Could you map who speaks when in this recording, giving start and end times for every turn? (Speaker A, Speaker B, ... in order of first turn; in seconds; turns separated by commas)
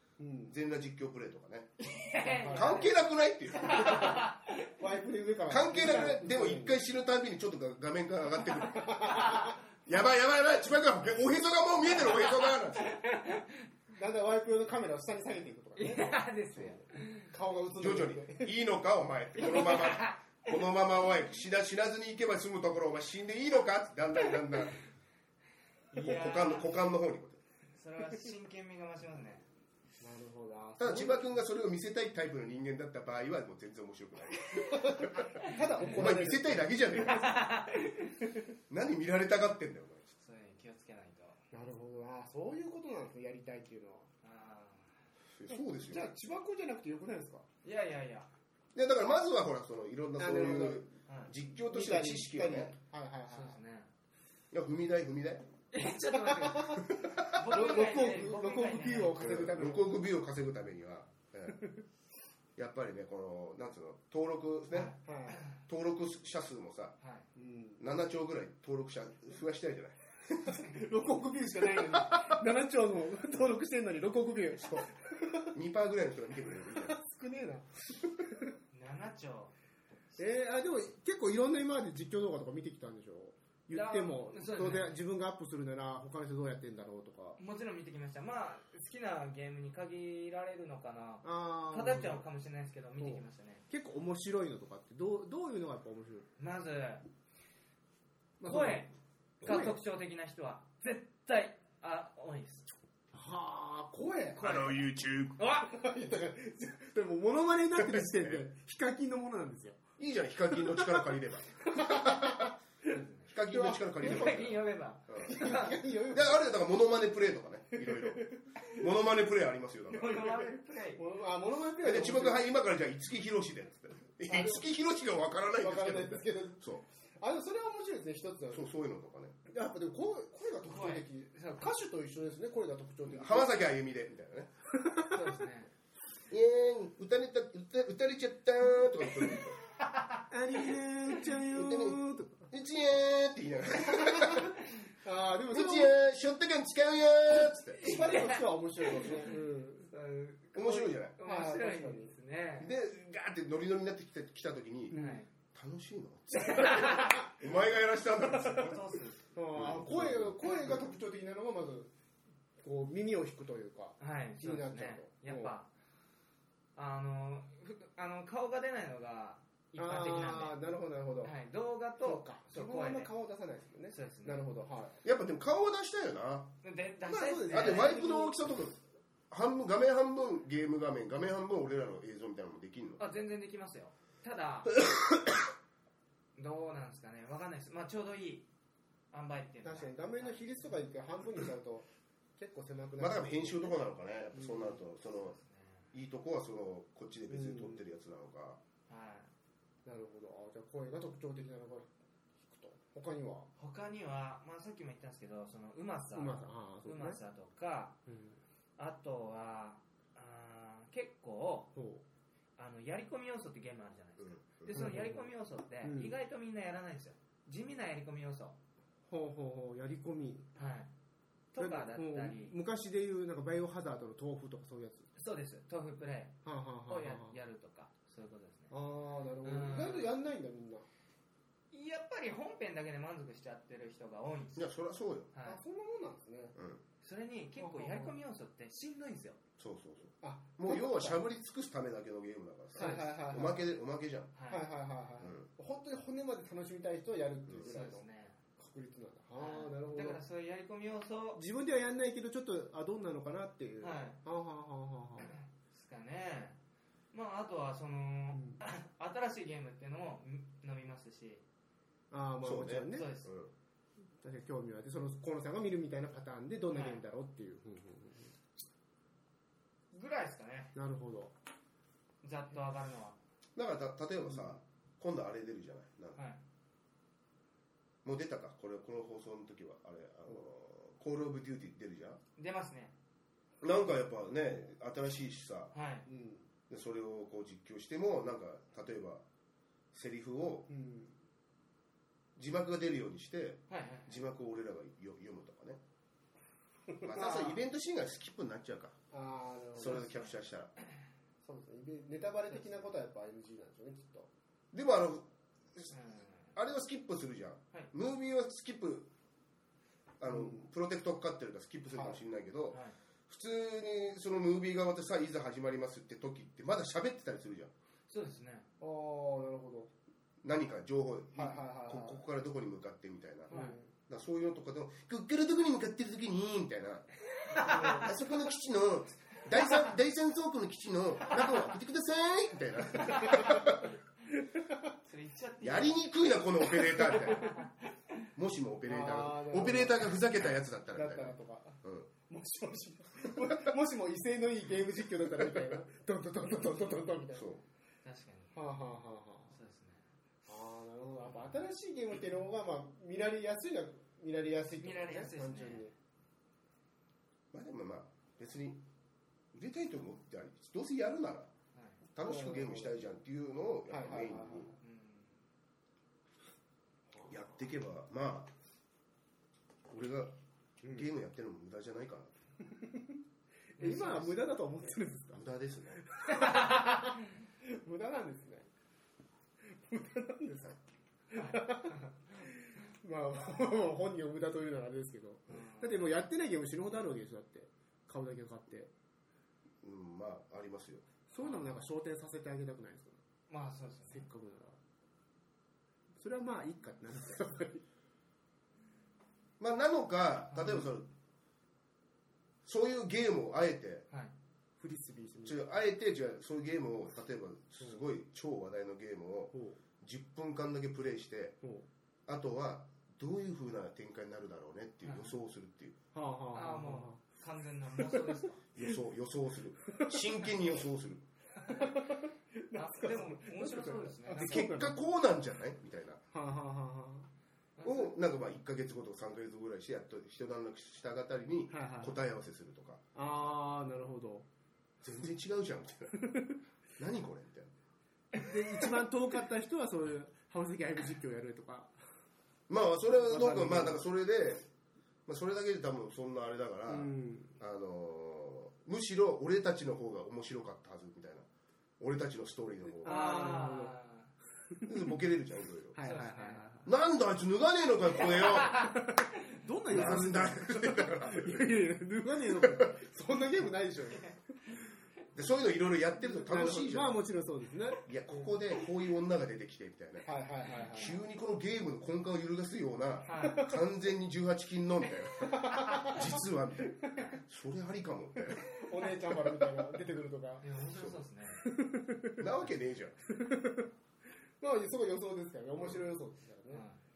Speaker A: 0.2-0.5, Speaker B: 0.5-1.7, Speaker C: 1.9-2.9, Speaker A: 2.2-2.9, Speaker B: 2.5-4.3, Speaker C: 3.6-4.7, Speaker A: 4.8-6.8, Speaker B: 5.5-8.9, Speaker A: 8.7-9.6, Speaker B: 9.9-12.9, Speaker C: 12.0-13.7, Speaker A: 13.9-18.5, Speaker C: 15.8-17.3, Speaker B: 17.8-24.8, Speaker C: 19.4-20.6, Speaker C: 25.9-26.8, Speaker B: 26.0-27.4, Speaker C: 27.8-29.5, Speaker A: 30.0-31.4, Speaker B: 30.8-35.3, Speaker A: 34.6-37.2, Speaker C: 35.3-36.0, Speaker B: 35.8-37.5, Speaker C: 36.9-38.1, Speaker B: 38.7-40.1, Speaker C: 40.2-41.4, Speaker A: 41.5-44.1, Speaker C: 44.2-44.9, Speaker B: 45.4-46.1, Speaker A: 45.5-47.5, Speaker C: 47.6-48.3, Speaker B: 48.8-52.7, Speaker A: 50.2-50.9, Speaker C: 51.1-51.3, Speaker A: 51.7-53.6, Speaker C: 53.3-53.9, Speaker B: 54.5-55.5, Speaker C: 55.7-59.2, Speaker A: 56.1-59.9, Speaker B: 57.0-57.5, Speaker B: 59.2-61.6, Speaker A: 61.5-61.8, Speaker B: 62.6-64.9, Speaker C: 64.7-65.4, Speaker A: 65.0-65.4, Speaker B: 65.7-67.0, Speaker C: 67.0-67.3, Speaker A: 67.4-67.8, Speaker B: 67.8-70.6, Speaker A: 70.5-75.5, Speaker B: 71.9-72.4, Speaker B: 74.6-74.9, Speaker B: 75.5-77.0, Speaker A: 76.7-77.7, Speaker C: 78.7-79.5, Speaker A: 80.2-87.4, Speaker C: 83.7-85.0, Speaker C: 87.4-93.7, Speaker A: 91.2-92.2, Speaker A: 93.0-96.3, Speaker C: 96.4-97.0, Speaker A: 98.4-98.8, Speaker C: 98.4-98.9, Speaker A: 99.4-99.8, Speaker C: 99.4-102.7, Speaker A: 103.1-104.7, Speaker C: 104.4-105.7, Speaker B: 104.4-105.4, Speaker A: 105.5-109.8, Speaker B: 107.8-108.4, Speaker B: 110.0-112.5, Speaker A: 110.5-114.5, Speaker C: 112.9-113.3, Speaker B: 113.3-115.3, Speaker C: 114.0-115.8, Speaker A: 115.2-116.4, Speaker B: 116.1-120.3, Speaker A: 117.8-118.4, Speaker C: 119.9-121.0, Speaker A: 120.1-122.4, Speaker B: 121.8-126.8, Speaker A: 124.3-124.7, Speaker A: 125.6-126.6, Speaker A: 127.2-128.7, Speaker B: 128.5-129.4, Speaker A: 129.5-133.5, Speaker C: 130.7-131.7, Speaker B: 133.1-134.5, Speaker A: 134.8-135.3, Speaker C: 135.1-135.7, Speaker B: 136.3-139.6, Speaker C: 139.8-140.2, Speaker A: 140.3-142.5, Speaker B: 141.5-144.5, Speaker A: 143.8-145.9, Speaker B: 145.5-147.8, Speaker A: 147.8-149.9, Speaker C: 147.8-152.7, Speaker B: 150.6-151.2, Speaker A: 151.2-152.1, Speaker B: 152.6-155.0, Speaker A: 154.9-155.2, Speaker C: 154.9-155.3, Speaker B: 155.5-158.8, Speaker C: 156.4-157.2, Speaker A: 156.7-157.2, Speaker C: 158.3-159.2, Speaker A: 159.3-161.9, Speaker B: 159.5-160.8, Speaker A: 162.6-165.5, Speaker C: 164.0-165.7, Speaker C: 166.8-170.6, Speaker A: 169.8-171.3, Speaker C: 171.2-173.1, Speaker A: 172.0-175.0, Speaker C: 173.9-174.4, Speaker B: 175.0-176.5, Speaker C: 176.6-178.3, Speaker A: 177.1-178.3, Speaker B: 177.5-178.8, Speaker B: 179.3-183.0, Speaker C: 183.0-184.8, Speaker B: 184.8-185.2, Speaker C: 186.4-188.5, Speaker C: 189.1-190.8, Speaker A: 189.6-191.9, Speaker A: 192.4-193.8, Speaker B: 193.0-195.4, Speaker A: 194.3-194.8, Speaker C: 195.4-195.8, Speaker B: 195.9-198.6, Speaker A: 197.3-197.8, Speaker C: 198.9-199.3, Speaker A: 199.9-201.9, Speaker A: 202.4-203.5, Speaker C: 203.6-208.0, Speaker A: 206.1-207.2, Speaker A: 208.1-208.4, Speaker C: 208.8-211.7, Speaker A: 211.8-212.0, Speaker C: 212.6-218.6, Speaker B: 214.2-214.8, Speaker A: 214.7-215.3, Speaker A: 215.8-216.2, Speaker A: 219.1-220.5, Speaker C: 220.6-220.9, Speaker C: 221.5-222.6, Speaker A: 221.6-225.1, Speaker C: 225.2-228.7, Speaker A: 226.4-227.4, Speaker A: 228.7-230.9, Speaker C: 229.4-230.1, Speaker C: 231.7-234.7, Speaker B: 234.6-235.3, Speaker C: 235.3-235.6, Speaker A: 235.4-236.6, Speaker B: 236.6-236.8, Speaker C: 237.0-239.4, Speaker A: 237.6-238.2, Speaker B: 239.6-244.3, Speaker A: 240.2-241.2, Speaker A: 242.8-243.6, Speaker C: 242.8-243.1, Speaker C: 244.4-244.7, Speaker A: 244.5-248.0, Speaker B: 245.2-245.5, Speaker C: 247.6-248.4, Speaker A: 248.6-250.2, Speaker C: 249.4-251.4, Speaker A: 251.3-255.3, Speaker C: 253.8-254.2, Speaker C: 255.2-256.6, Speaker C: 257.1-261.4, Speaker A: 258.3-258.6, Speaker A: 262.1-263.2, Speaker B: 262.4-263.5, Speaker C: 262.9-263.3, Speaker A: 264.2-268.4, Speaker C: 266.7-267.0, Speaker C: 269.9-270.7, Speaker A: 270.8-271.3, Speaker C: 272.2-273.2, Speaker B: 273.6-276.2, Speaker B: 278.0-282.2, Speaker C: 282.4-282.9, Speaker B: 283.6-285.7, Speaker C: 285.7-286.1, Speaker A: 286.1-286.5, Speaker B: 286.7-289.2, Speaker B: 289.9-290.7, Speaker A: 290.7-291.1, Speaker B: 292.4-295.8, Speaker C: 293.7-294.2, Speaker A: 296.9-297.6, Speaker B: 297.0-299.0, Speaker A: 299.1-300.2, Speaker B: 299.8-300.7, Speaker A: 301.4-304.3, Speaker B: 304.7-306.0, Speaker C: 305.9-306.5, Speaker B: 306.6-309.1, Speaker B: 310.2-317.7, Speaker A: 310.3-310.6, Speaker A: 311.9-312.2, Speaker C: 312.7-313.0, Speaker C: 318.1-318.7, Speaker A: 318.8-319.9, Speaker B: 320.4-323.5, Speaker A: 321.4-322.2, Speaker C: 323.5-323.8, Speaker A: 323.5-323.9, Speaker B: 324.1-327.1, Speaker A: 327.5-328.1, Speaker C: 327.6-328.1, Speaker B: 328.0-333.9, Speaker C: 331.3-331.6, Speaker C: 333.0-333.7, Speaker A: 333.2-333.6, Speaker A: 334.4-334.9, Speaker C: 335.0-336.0, Speaker B: 335.6-337.6, Speaker C: 336.7-337.9, Speaker B: 338.4-342.1, Speaker A: 338.9-340.1, Speaker A: 340.9-347.5, Speaker B: 345.2-345.8, Speaker B: 347.3-347.6, Speaker C: 348.0-348.6, Speaker A: 348.6-349.5, Speaker C: 349.5-350.0, Speaker A: 350.5-355.9, Speaker C: 351.2-351.6, Speaker C: 354.8-355.9, Speaker B: 357.5-358.8, Speaker B: 359.5-361.5, Speaker B: 362.1-364.7, Speaker A: 362.2-363.0, Speaker A: 363.9-364.8, Speaker C: 364.8-365.3, Speaker B: 367.3-368.5, Speaker B: 369.9-370.3, Speaker B: 370.9-372.3, Speaker A: 372.7-373.2, Speaker A: 373.8-375.4, Speaker C: 373.8-374.5, Speaker B: 375.3-376.0, Speaker A: 376.0-378.7, Speaker C: 376.4-377.1, Speaker A: 379.9-380.8, Speaker A: 381.3-388.9, Speaker C: 381.3-382.0, Speaker C: 385.5-386.1, Speaker B: 389.8-391.1, Speaker A: 391.3-393.2, Speaker C: 391.4-391.7, Speaker C: 393.5-394.3, Speaker A: 394.1-394.8, Speaker A: 396.2-397.8, Speaker B: 399.6-401.1, Speaker C: 400.5-400.8, Speaker B: 402.6-404.1, Speaker A: 404.8-405.6, Speaker B: 405.4-411.6, Speaker A: 409.5-409.8, Speaker A: 411.6-411.9, Speaker B: 412.3-416.0, Speaker C: 415.0-415.3, Speaker A: 416.1-417.2, Speaker C: 416.5-418.6, Speaker A: 418.0-418.4, Speaker B: 418.8-421.2, Speaker A: 419.9-420.2, Speaker A: 421.6-425.0, Speaker C: 422.8-424.6, Speaker B: 424.4-426.2, Speaker A: 426.3-427.3, Speaker C: 427.8-428.1, Speaker B: 427.8-433.0, Speaker A: 431.7-432.2, Speaker A: 433.1-434.5, Speaker B: 435.0-436.1, Speaker A: 436.2-436.6, Speaker B: 437.0-437.8, Speaker A: 438.4-442.0, Speaker B: 442.7-444.6, Speaker A: 443.2-444.0, Speaker B: 445.3-451.5, Speaker A: 446.9-447.6, Speaker B: 452.0-453.4, Speaker A: 453.0-454.0, Speaker C: 453.1-454.3, Speaker B: 454.9-456.0, Speaker A: 455.9-456.9, Speaker C: 456.0-456.8, Speaker B: 456.9-458.9, Speaker C: 458.3-459.0, Speaker A: 458.5-464.4, Speaker B: 459.9-461.6, Speaker B: 462.5-462.9, Speaker B: 465.4-467.2, Speaker A: 466.2-468.6, Speaker B: 468.1-470.3, Speaker A: 470.2-471.2, Speaker C: 470.7-471.0, Speaker B: 470.9-479.9, Speaker C: 473.3-473.7, Speaker A: 473.3-473.7, Speaker A: 475.4-476.4, Speaker A: 478.7-480.7, Speaker C: 480.6-481.6, Speaker B: 480.8-481.2, Speaker A: 481.6-482.4, Speaker B: 482.4-483.2, Speaker A: 483.3-483.9, Speaker A: 484.6-486.9, Speaker C: 486.7-487.0